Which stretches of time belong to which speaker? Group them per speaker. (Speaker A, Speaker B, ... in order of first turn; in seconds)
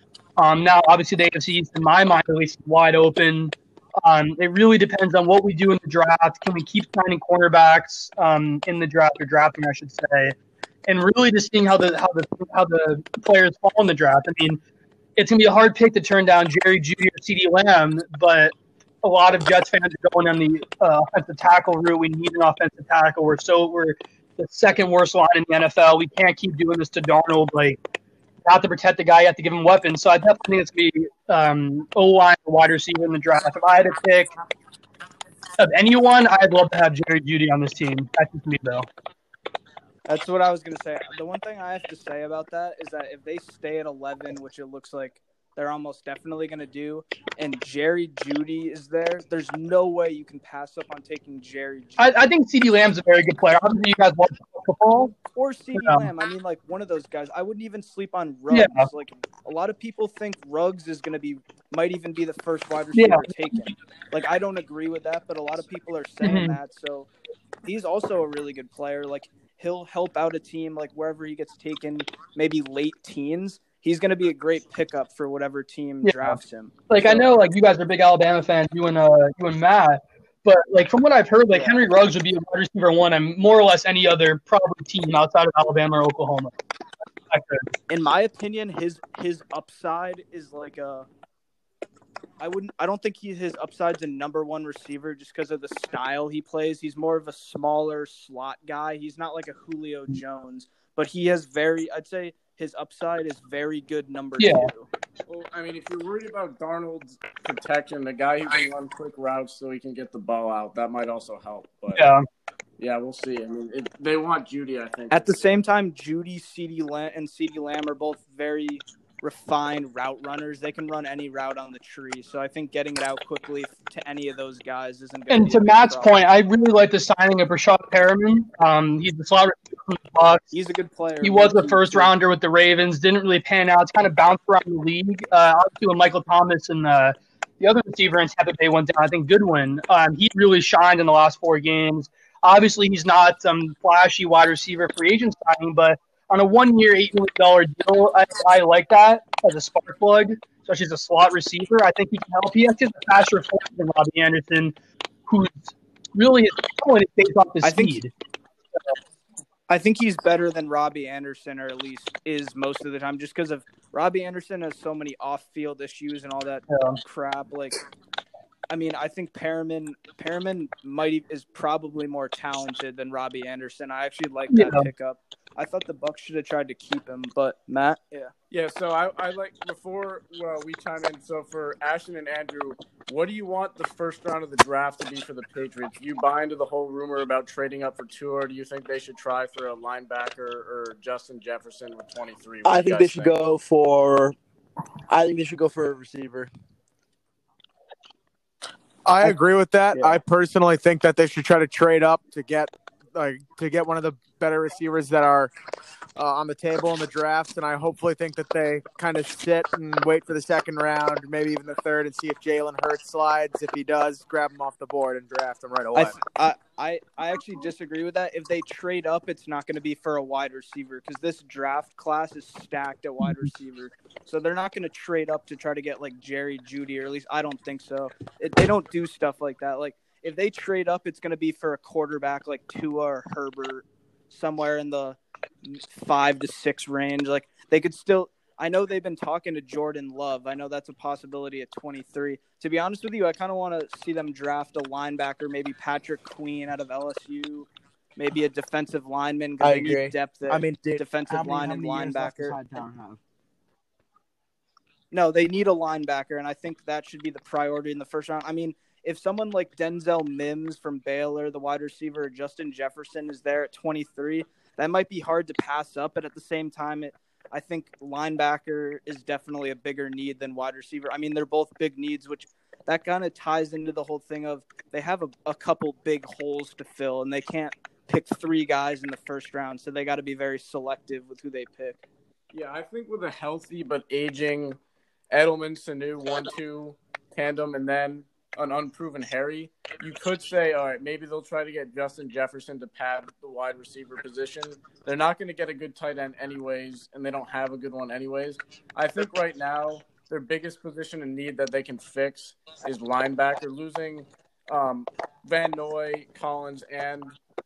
Speaker A: 0.4-10.3, 10.9-14.6, 15.2-27.8, 28.4-34.3, 35.6-38.9, 52.0-55.1, 55.8-56.1, 58.5-58.9, 62.9-63.5, 66.2-66.6, 76.0-86.5, 87.3-87.6, 104.4-104.7, 111.9-112.2, 125.3-130.4, 131.2-154.8, 155.3-158.1, 166.7-167.0, 174.5-174.9
Speaker B: 40.1-52.2, 55.1-67.1, 67.6-77.3, 81.5-81.8, 87.9-91.1, 92.4-104.9, 115.1-126.1, 130.5-132.1, 157.6-158.0, 159.7-167.8, 168.7-178.3, 215.9-252.6, 255.1-282.0
Speaker C: 105.3-112.0, 112.8-115.5, 178.5-193.3, 282.5-284.8, 285.3-307.4
Speaker D: 192.6-194.3, 195.1-196.5, 249.6-253.2
Speaker E: 199.1-205.5, 206.2-216.2